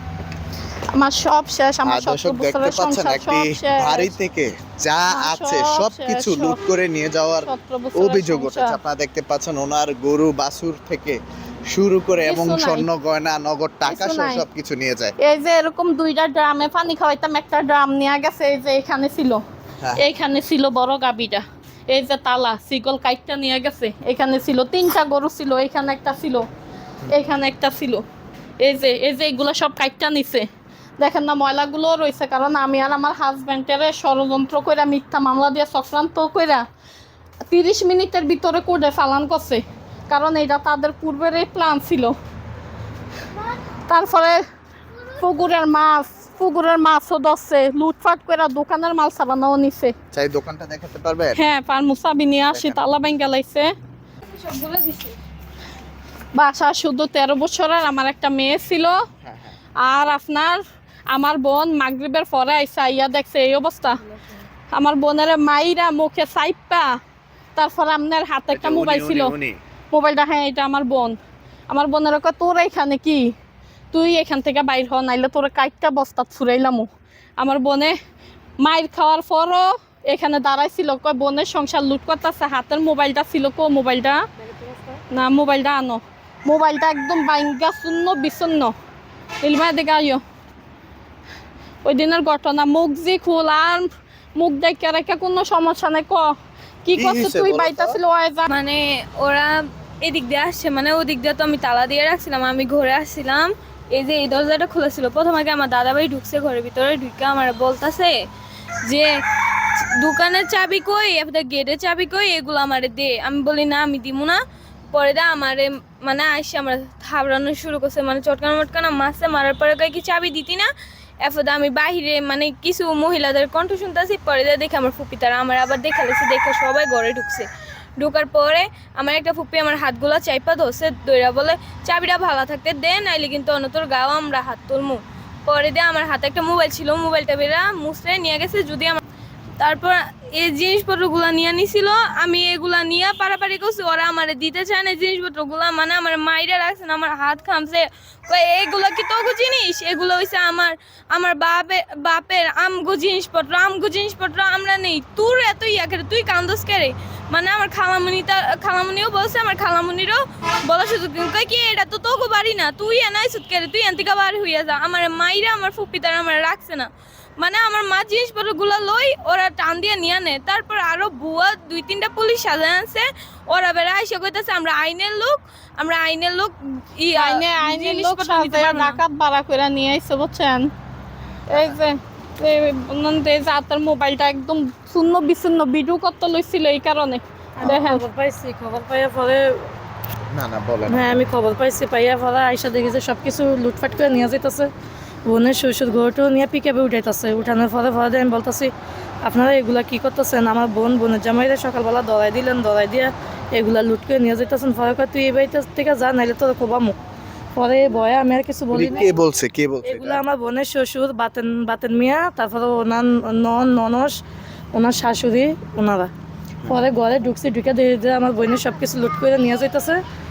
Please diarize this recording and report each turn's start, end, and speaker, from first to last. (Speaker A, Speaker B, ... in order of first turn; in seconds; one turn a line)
Speaker A: 0.9-4.1
Speaker B: 1.8-15.1
Speaker A: 5.1-6.6
Speaker A: 7.4-8.8
Speaker A: 12.2-12.9
Speaker A: 13.9-14.4
Speaker A: 15.2-19.4
Speaker A: 20.0-26.5
Speaker A: 27.1-28.0
Speaker A: 28.6-30.5
Speaker A: 31.0-36.6
Speaker A: 37.5-42.1
Speaker A: 43.9-44.4
Speaker A: 45.2-49.9
Speaker B: 50.1-51.4
Speaker A: 51.4-53.7
Speaker B: 52.5-52.8
Speaker A: 56.3-59.0
Speaker B: 59.2-59.5
Speaker A: 59.8-60.6
Speaker A: 61.1-64.0
Speaker A: 64.7-67.0
Speaker A: 67.5-69.3
Speaker B: 68.5-69.6
Speaker A: 69.9-71.2
Speaker A: 71.7-73.3
Speaker A: 73.9-76.9
Speaker A: 77.4-77.9
Speaker A: 78.6-84.2
Speaker A: 85.1-88.7
Speaker A: 89.4-90.2
Speaker A: 91.8-96.3
Speaker A: 96.8-98.5
Speaker B: 97.0-98.0
Speaker C: 98.5-108.1
Speaker C: 110.0-114.4
Speaker C: 114.9-120.7
Speaker C: 121.2-127.5
Speaker C: 128.0-139.0
Speaker C: 139.6-179.0
Speaker A: 177.1-180.7
Speaker A: 181.5-188.0
Speaker D: 187.6-189.7
Speaker B: 190.3-191.3
Speaker D: 190.9-194.7
Speaker D: 195.2-198.7
Speaker D: 199.2-207.0
Speaker D: 207.5-209.2
Speaker B: 208.7-210.2
Speaker D: 209.8-214.2
Speaker D: 214.7-216.1
Speaker D: 216.7-220.0